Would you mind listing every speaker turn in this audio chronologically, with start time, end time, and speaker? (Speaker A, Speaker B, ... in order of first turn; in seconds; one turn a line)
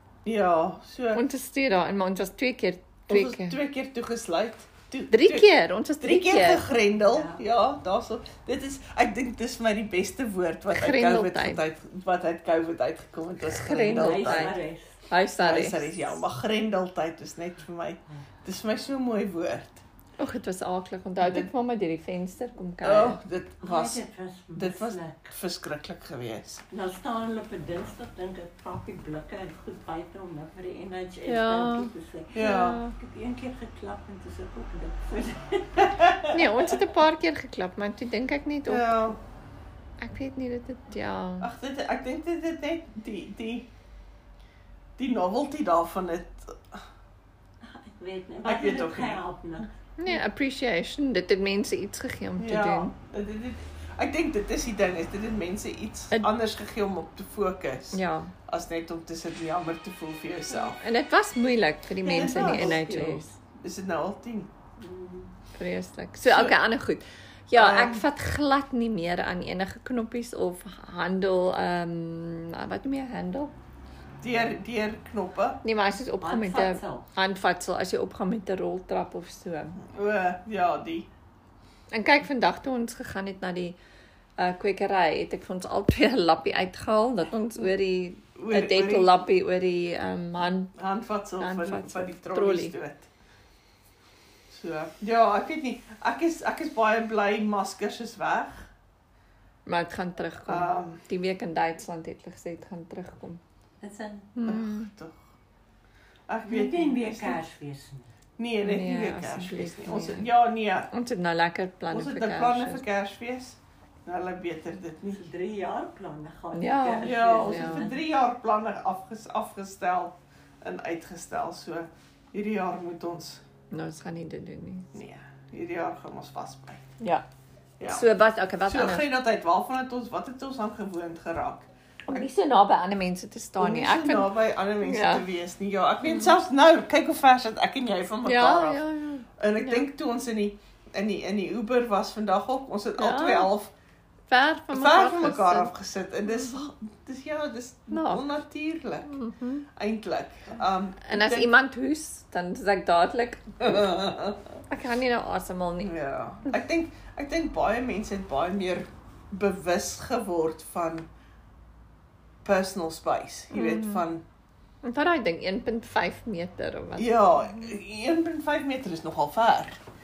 Speaker A: 0.2-1.2
Speaker B: 1.1-3.6
Speaker A: 3.1-5.5
Speaker B: 5.1-6.7
Speaker A: 6.0-14.6
Speaker C: 7.0-7.4
Speaker B: 10.7-11.6
Speaker B: 13.4-16.2
Speaker C: 13.9-15.0
Speaker A: 15.4-19.8
Speaker B: 20.2-23.2
Speaker A: 21.2-21.5
Speaker A: 22.8-24.0
Speaker C: 23.6-25.4
Speaker A: 24.6-26.6
Speaker C: 26.7-36.0
Speaker B: 31.3-32.9
Speaker A: 32.3-32.8
Speaker A: 35.9-36.8
Speaker B: 36.3-39.1
Speaker A: 38.7-39.2
Speaker B: 40.0-41.5
Speaker A: 41.4-43.7
Speaker A: 45.0-46.8
Speaker C: 47.6-50.2
Speaker A: 48.4-49.2
Speaker B: 50.0-52.9
Speaker A: 52.4-60.8
Speaker B: 57.9-58.3
Speaker B: 60.5-63.3
Speaker C: 62.0-63.3
Speaker A: 62.1-62.8
Speaker A: 63.6-64.5
Speaker C: 64.8-65.3
Speaker B: 65.5-73.5
Speaker A: 66.2-66.6
Speaker A: 67.6-68.0
Speaker A: 74.2-75.6
Speaker B: 75.6-79.8
Speaker C: 76.2-77.1
Speaker A: 79.9-81.1
Speaker B: 81.9-83.8
Speaker B: 84.4-90.8
Speaker A: 88.4-89.2
Speaker A: 90.8-93.1
Speaker B: 91.4-92.8
Speaker A: 94.5-98.7
Speaker B: 99.7-103.4
Speaker A: 100.5-101.0
Speaker C: 103.8-104.3
Speaker B: 104.4-104.9
Speaker A: 104.4-105.3
Speaker A: 106.3-107.4
Speaker C: 106.4-108.1
Speaker A: 108.4-110.9
Speaker B: 108.6-110.3
Speaker B: 110.9-112.8
Speaker A: 111.9-115.2
Speaker C: 115.1-118.0
Speaker B: 116.5-117.8
Speaker A: 117.0-123.4
Speaker B: 123.7-124.9
Speaker A: 124.9-126.8
Speaker B: 127.0-127.2
Speaker A: 127.8-128.1
Speaker B: 127.9-129.1
Speaker A: 128.7-132.3
Speaker B: 132.1-135.3
Speaker A: 133.6-138.8
Speaker B: 136.0-136.3
Speaker B: 138.2-139.9
Speaker A: 139.4-143.7
Speaker B: 143.0-143.5
Speaker B: 144.3-145.7
Speaker A: 144.7-149.1
Speaker B: 146.3-146.7
Speaker B: 147.9-148.3
Speaker B: 149.0-149.7
Speaker A: 149.8-151.5
Speaker B: 151.0-153.8
Speaker A: 153.6-154.4
Speaker B: 154.7-155.9
Speaker A: 155.8-161.1
Speaker A: 162.4-164.2
Speaker B: 163.5-164.1
Speaker B: 164.8-167.8
Speaker A: 167.0-169.8